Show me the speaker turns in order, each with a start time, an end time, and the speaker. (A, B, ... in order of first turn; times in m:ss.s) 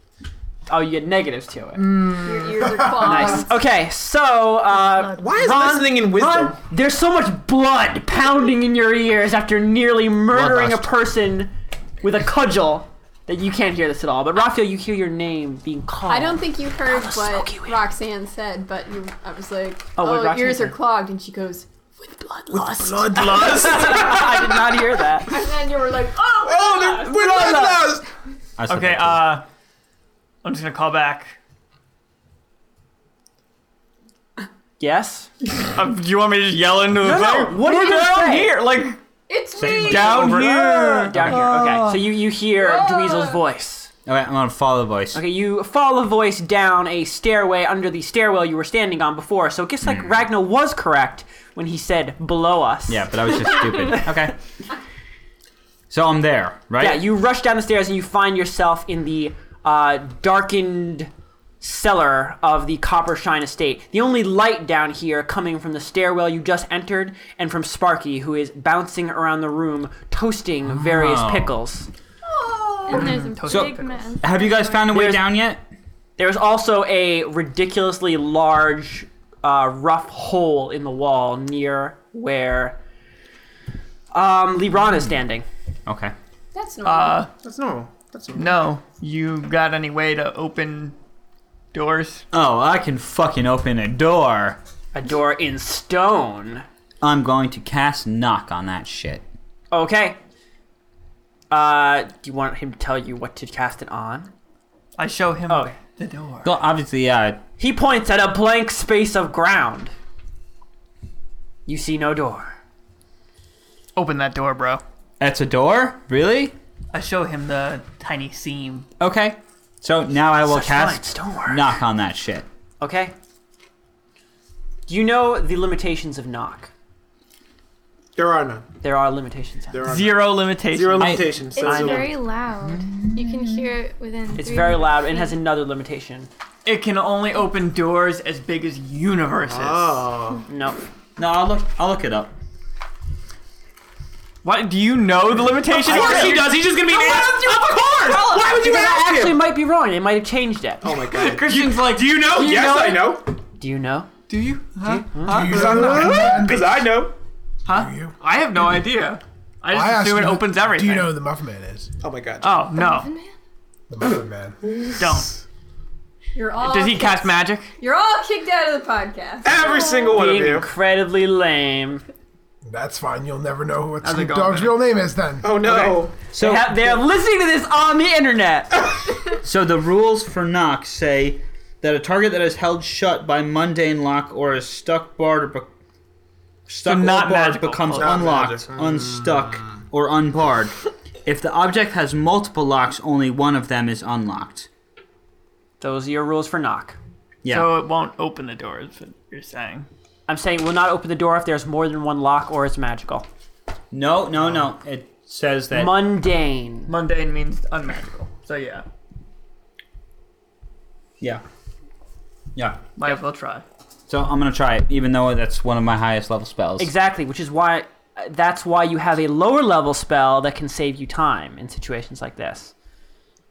0:00.7-0:01.9 A
0:01.8-0:02.9 B
0:02.2-0:03.5 C
0:02.8-0:03.1 D
0:03.0-0:17.9 A
0:05.2-0:06.6 B
0:10.3-0:10.9 B
0:16.1-0:24.2 C
0:20.0-0:20.8 A
0:22.5-0:24.6 B
0:23.0-0:25.3 A
0:25.3-0:27.6 C
0:26.4-0:28.1 B
0:27.1-0:27.9 A
0:28.6-0:29.4 E
0:28.7-0:29.4 F
0:30.4-0:31.4 F
0:34.8-0:35.3 A
0:35.7-0:39.0 F
0:37.0-0:38.6 A
0:39.3-0:40.9 C
0:39.6-0:40.2 E
0:39.7-0:42.1 F
0:40.0-0:41.3 B
0:40.2-0:43.9 A
0:41.2-0:41.7 E
0:42.5-0:43.4 C
0:44.0-0:45.2 E
0:45.1-0:53.6 A
0:49.8-0:50.3 E
0:52.9-0:54.4 E
0:55.9-0:57.1 E
0:56.8-1:11.9 A
1:10.7-1:11.5 E
1:12.2-1:13.1 C
1:12.9-1:14.9 G
1:12.9-1:14.1 F
1:13.5-1:15.6 E
1:14.9-1:15.3 A
1:16.2-1:22.8 A
1:24.1-1:25.4 A
1:25.8-1:26.1 E
1:26.5-1:27.3 C
1:26.8-1:27.3 F
1:27.4-1:28.7 B
1:28.3-1:31.0 F
1:31.7-1:32.2 F
1:32.3-1:34.6 E
1:34.9-1:36.6 A
1:37.0-1:39.2 E
1:39.7-1:40.2 A
1:41.5-1:44.3 A
1:45.0-1:46.5 F
1:45.5-1:45.7 A
1:46.4-1:47.4 E
1:47.6-1:49.9 A
1:51.6-1:52.6 A
1:54.0-1:54.8 F
1:55.2-1:56.5 E
1:56.9-1:58.9 F
1:59.0-2:02.4 E
2:00.4-2:01.8 A
2:02.8-2:03.1 A
2:04.9-2:06.7 A
2:08.2-2:08.6 B
2:08.8-2:09.8 A
2:09.7-2:12.1 B
2:09.8-2:11.3 F
2:11.0-2:11.3 E
2:11.5-2:11.8 C
2:11.6-2:15.4 G
2:11.6-2:12.1 A
2:14.3-2:16.3 A
2:16.6-2:20.0 F
2:19.4-2:20.4 B
2:20.5-2:20.8 A
2:21.2-2:22.3 E
2:24.4-2:28.5 F
2:25.7-2:29.4 B
2:25.9-2:26.4 A
2:28.2-2:30.9 A
2:30.8-2:33.3 B
2:31.0-2:33.2 F
2:33.6-2:34.1 A
2:34.3-2:36.5 F
2:34.8-2:37.1 B
2:35.2-2:36.7 D
2:37.6-2:41.1 F
2:37.7-2:38.1 D
2:39.7-2:41.9 D
2:42.0-2:42.6 B
2:42.4-2:43.1 F
2:42.7-2:43.3 G
2:43.9-2:44.6 D
2:44.6-2:45.2 B
2:45.0-2:45.3 F
2:46.3-2:49.9 C
2:46.6-2:47.7 F
2:49.4-2:50.7 B
2:49.7-2:50.1 G
2:50.1-2:52.0 A
2:52.6-2:55.7 D
2:54.0-2:54.8 F
2:55.4-2:56.1 B
2:55.6-2:58.8 A
2:56.3-2:57.0 E
2:59.4-3:05.7 E
3:06.7-3:10.7 E
3:06.8-3:08.3 F
3:08.0-3:09.8 B
3:11.2-3:14.7 E
3:15.8-3:17.0 A
3:17.4-3:17.7 E
3:17.4-3:19.9 F
3:20.3-3:23.3 A
3:23.9-3:26.0 E
3:25.7-3:26.9 A
3:26.9-3:28.8 F
3:32.5-3:32.8 E
3:33.0-3:33.6 F
3:34.1-3:36.9 E
3:36.8-3:42.7 A